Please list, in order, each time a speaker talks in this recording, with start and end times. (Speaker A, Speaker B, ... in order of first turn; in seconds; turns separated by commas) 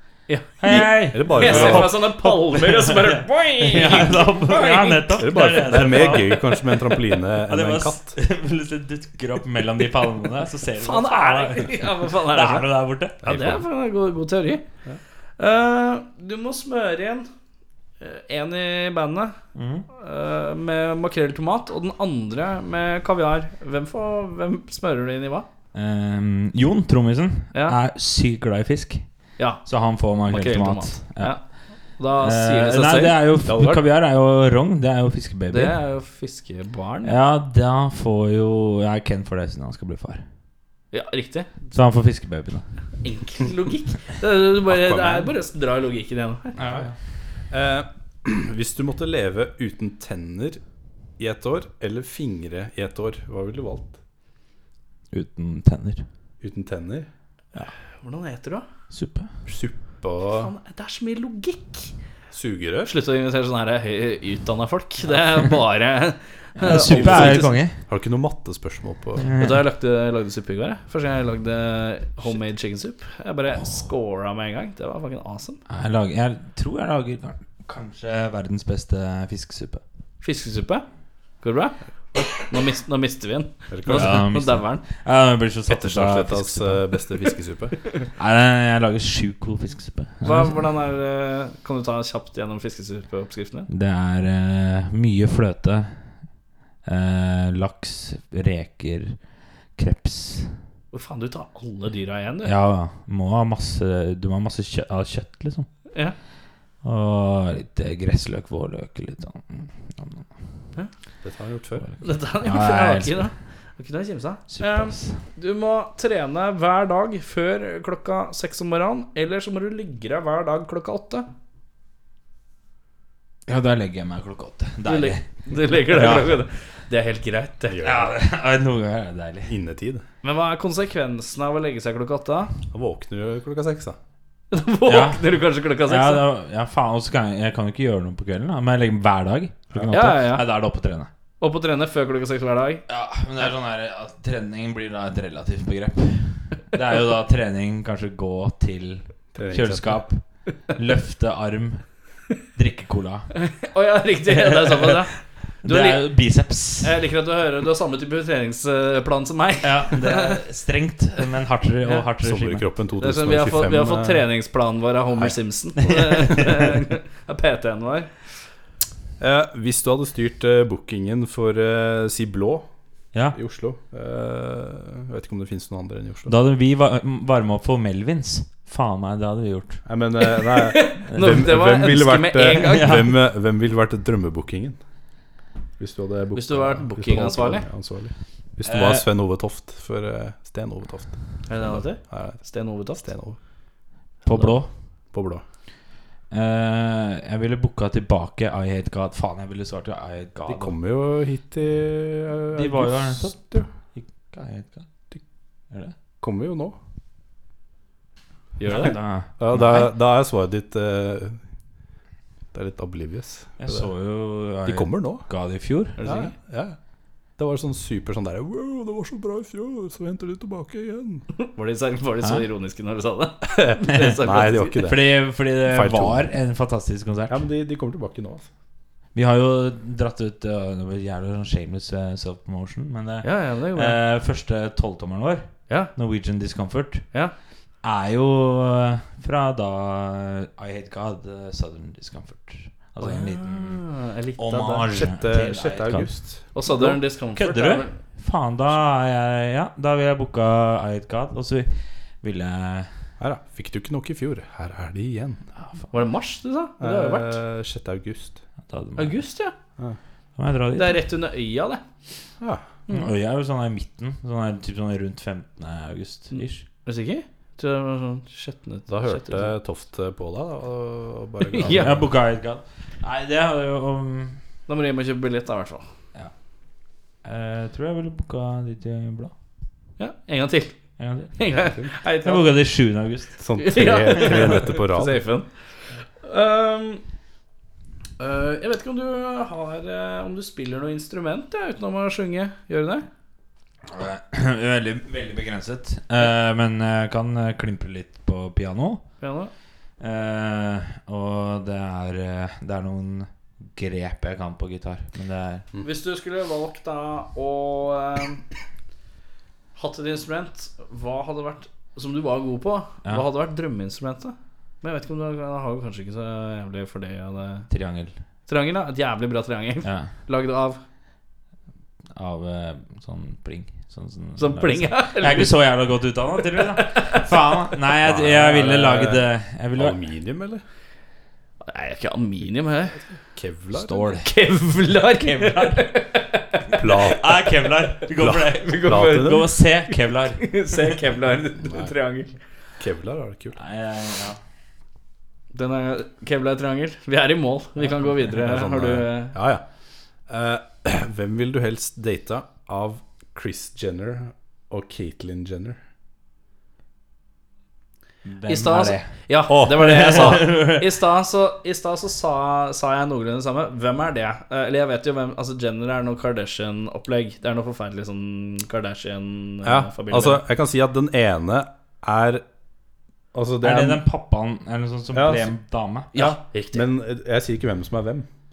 Speaker A: 0.3-6.5, Speaker B: 0.6-6.6, Speaker C: 0.7-2.1, Speaker C: 5.2-8.2, Speaker B: 7.4-13.3, Speaker A: 10.8-12.7, Speaker C: 13.2-13.6, Speaker A: 13.2-14.7, Speaker A: 15.4-17.3, Speaker A: 18.0-19.4, Speaker B: 19.6-19.9, Speaker A: 19.9-25.5, Speaker B: 25.7-35.8, Speaker A: 27.5-27.8, Speaker A: 29.4-33.8, Speaker C: 33.5-33.8, Speaker A: 35.5-37.2, Speaker B: 37.0-40.2, Speaker A: 40.9-41.7, Speaker B: 41.7-42.6, Speaker A: 43.0-46.6, Speaker C: 44.7-45.3, Speaker B: 46.6-47.0, Speaker C: 46.6-46.9, Speaker C: 47.5-50.6, Speaker C: 51.2-54.0, Speaker B: 55.1-56.1, Speaker C: 56.4-57.1, Speaker A: 57.6-58.7, Speaker B: 58.9-59.3, Speaker C: 59.5-60.5, Speaker A: 60.3-61.9, Speaker C: 62.3-62.9, Speaker A: 62.9-67.6, Speaker B: 66.6-67.8, Speaker C: 66.7-69.3, Speaker B: 69.2-69.6, Speaker A: 69.3-75.6, Speaker B: 75.7-79.8, Speaker A: 80.2-80.8, Speaker A: 81.4-84.9, Speaker C: 83.7-84.3, Speaker B: 83.9-87.0, Speaker C: 85.7-87.8, Speaker B: 88.2-90.6, Speaker A: 90.2-93.7, Speaker B: 93.7-96.1, Speaker B: 96.8-99.2, Speaker B: 99.8-100.6, Speaker A: 100.9-102.5, Speaker B: 102.4-105.7, Speaker B: 106.8-110.3, Speaker C: 111.2-111.9, Speaker B: 111.9-113.3, Speaker A: 112.0-121.3, Speaker B: 114.5-115.2, Speaker B: 123.5-126.4, Speaker A: 124.8-127.8, Speaker C: 127.7-128.2, Speaker B: 127.8-129.5, Speaker C: 129.5-130.1, Speaker A: 130.2-132.5, Speaker C: 132.7-134.0, Speaker A: 134.5-136.3, Speaker B: 134.9-141.1, Speaker A: 139.9-140.4, Speaker A: 141.4-142.8, Speaker B: 142.9-153.3, Speaker C: 149.3-150.1, Speaker A: 153.4-156.1, Speaker B: 154.4-155.0, Speaker B: 155.6-157.0, Speaker A: 156.8-160.4, Speaker B: 159.6-162.7, Speaker C: 162.2-164.3, Speaker A: 163.0-168.2, Speaker C: 169.2-172.7, Speaker C: 173.3-176.4, Speaker B: 176.3-179.8, Speaker C: 179.8-184.8, Speaker A: 180.4-183.0, Speaker B: 182.7-183.1, Speaker C: 185.8-192.4, Speaker A: 186.3-187.7, Speaker B: 188.7-189.1, Speaker A: 191.5-193.1, Speaker C: 192.9-193.4, Speaker B: 194.3-194.7, Speaker C: 195.1-195.4, Speaker B: 196.3-200.7, Speaker C: 200.5-203.7, Speaker B: 202.5-204.9, Speaker B: 205.7-205.9, Speaker C: 206.2-206.8, Speaker A: 208.6-209.0, Speaker B: 208.7-209.9, Speaker C: 209.4-211.4, Speaker C: 212.5-213.9, Speaker B: 213.6-216.1, Speaker C: 214.7-215.3, Speaker A: 216.0-216.3, Speaker C: 216.0-216.8, Speaker C: 217.4-221.3, Speaker A: 221.4-224.8, Speaker C: 223.7-226.3, Speaker B: 224.8-227.4, Speaker C: 227.3-228.5, Speaker B: 229.2-237.1, Speaker A: 233.2-234.0, Speaker B: 237.8-252.9, Speaker A: 243.0-244.9, Speaker C: 244.9-246.8, Speaker A: 246.5-248.0, Speaker C: 253.2-255.5, Speaker A: 255.9-257.4, Speaker C: 256.8-258.4, Speaker B: 258.7-259.2, Speaker A: 259.0-259.5, Speaker B: 260.4-261.0, Speaker A: 260.8-261.8, Speaker C: 262.4-262.7, Speaker B: 262.9-266.6, Speaker A: 266.3-269.5, Speaker C: 268.9-272.1, Speaker A: 271.4-272.0, Speaker B: 271.6-274.4, Speaker A: 274.7-275.8, Speaker B: 277.2-279.3, Speaker A: 280.0-280.8, Speaker B: 281.0-281.5, Speaker A: 281.4-282.5, Speaker B: 282.1-283.5, Speaker C: 283.4-285.2, Speaker A: 283.6-285.5, Speaker A: 286.2-287.0, Speaker A: 288.2-293.1, Speaker B: 293.9-299.1, Speaker A: 299.2-299.5, Speaker B: 300.0-305.7, Speaker A: 305.8-308.4, Speaker A: 309.8-317.7, Speaker B: 317.7-318.1, Speaker A: 318.5-320.8, Speaker B: 319.8-320.1, Speaker B: 322.1-330.0, Speaker A: 324.4-325.6, Speaker A: 326.5-327.4, Speaker C: 328.0-330.6, Speaker A: 331.6-333.0, Speaker C: 333.4-334.2, Speaker B: 333.8-334.3, Speaker A: 334.1-336.9, Speaker B: 335.1-335.9, Speaker C: 336.8-337.4, Speaker B: 337.0-340.6, Speaker C: 338.2-339.5, Speaker A: 338.5-342.4, Speaker C: 341.6-341.9, Speaker C: 342.8-343.6, Speaker B: 343.6-344.4, Speaker A: 345.5-349.4, Speaker C: 348.3-349.6, Speaker C: 350.3-355.8, Speaker B: 358.3-361.0, Speaker A: 358.5-370.4, Speaker C: 359.5-360.5, Speaker C: 369.6-372.4, Speaker C: 373.3-374.0, Speaker B: 373.6-376.1, Speaker C: 375.1-375.5, Speaker A: 376.1-376.9, Speaker C: 376.1-378.3